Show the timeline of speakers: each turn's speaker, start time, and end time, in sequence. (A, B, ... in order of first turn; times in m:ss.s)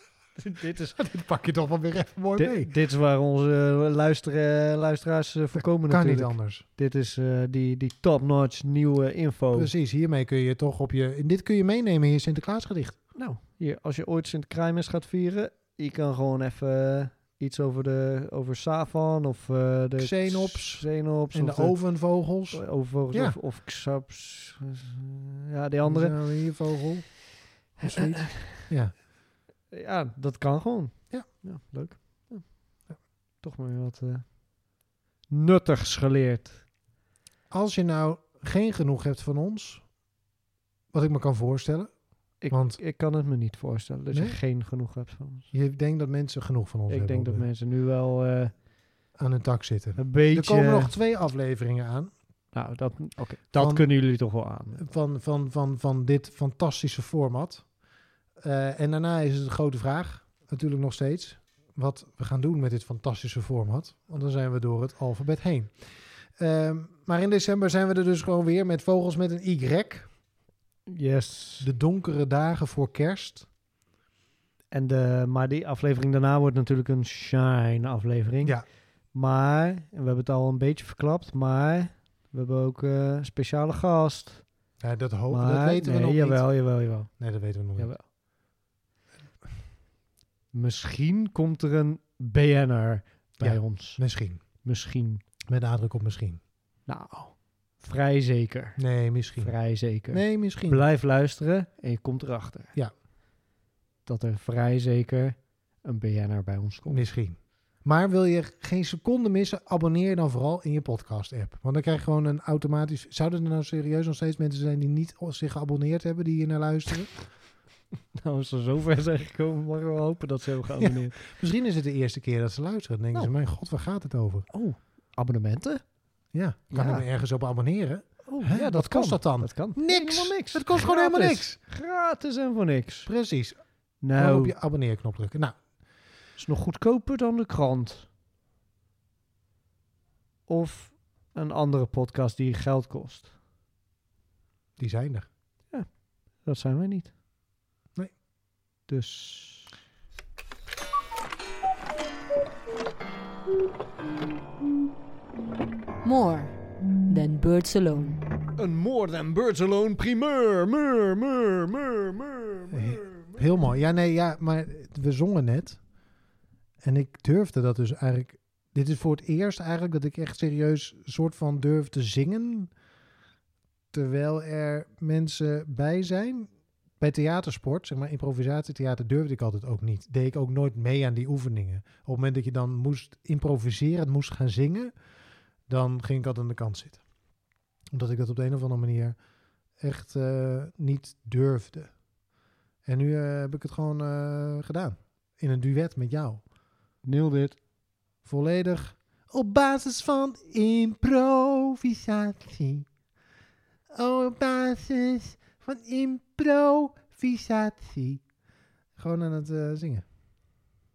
0:00.3-0:01.0 A
0:00.9-0:02.7 B
0:02.4-0:09.7 A
0:05.9-0:06.6 B
0:09.5-0:13.0 B
0:13.1-0:26.5 A
0:20.0-0:23.4 B
0:25.8-0:28.9 B
0:27.7-0:28.7 A
0:29.7-0:36.6 A
0:37.5-0:39.9 B
0:40.9-0:42.8 B
0:42.4-0:45.5 A
0:44.1-0:44.4 B
0:45.5-0:47.5 B
0:46.9-0:48.7 A
0:49.1-0:52.1 B
0:50.0-0:51.0 A
0:52.5-0:54.9 A
0:53.5-0:53.9 B
0:54.8-0:57.8 B
0:58.4-1:10.2 B
1:10.9-1:11.7 A
1:11.6-1:13.5 B
1:14.7-1:24.6 A
1:24.8-1:28.0 B
1:25.3-1:28.1 A
1:30.5-1:35.2 A
1:33.4-1:34.4 B
1:35.5-1:36.4 B
1:36.8-1:38.8 A
1:38.8-1:40.8 B
1:39.4-1:42.7 A
1:44.0-1:47.0 A
1:46.8-1:57.4 B
1:58.1-2:01.2 A
2:01.2-2:04.5 B
2:04.5-2:06.0 A
2:06.3-2:11.6 B
2:06.7-2:07.0 A
2:08.2-2:13.1 A
2:13.0-2:15.6 B
2:14.0-2:14.5 A
2:16.3-2:18.1 A
2:20.5-2:23.3 A
2:24.8-2:25.3 B
2:25.7-2:27.1 A
2:28.8-2:29.7 A
2:36.0-2:38.4 C
2:38.6-2:43.4 A
2:42.7-2:45.9 B
2:46.8-2:52.7 B
2:53.9-3:04.9 B
3:05.7-3:07.0 B
3:07.9-3:09.2 B
3:09.8-3:12.0 B
3:12.8-3:16.4 B
3:17.0-3:17.6 A
3:18.2-3:22.9 B
3:23.9-3:28.2 B
3:29.0-3:30.0 B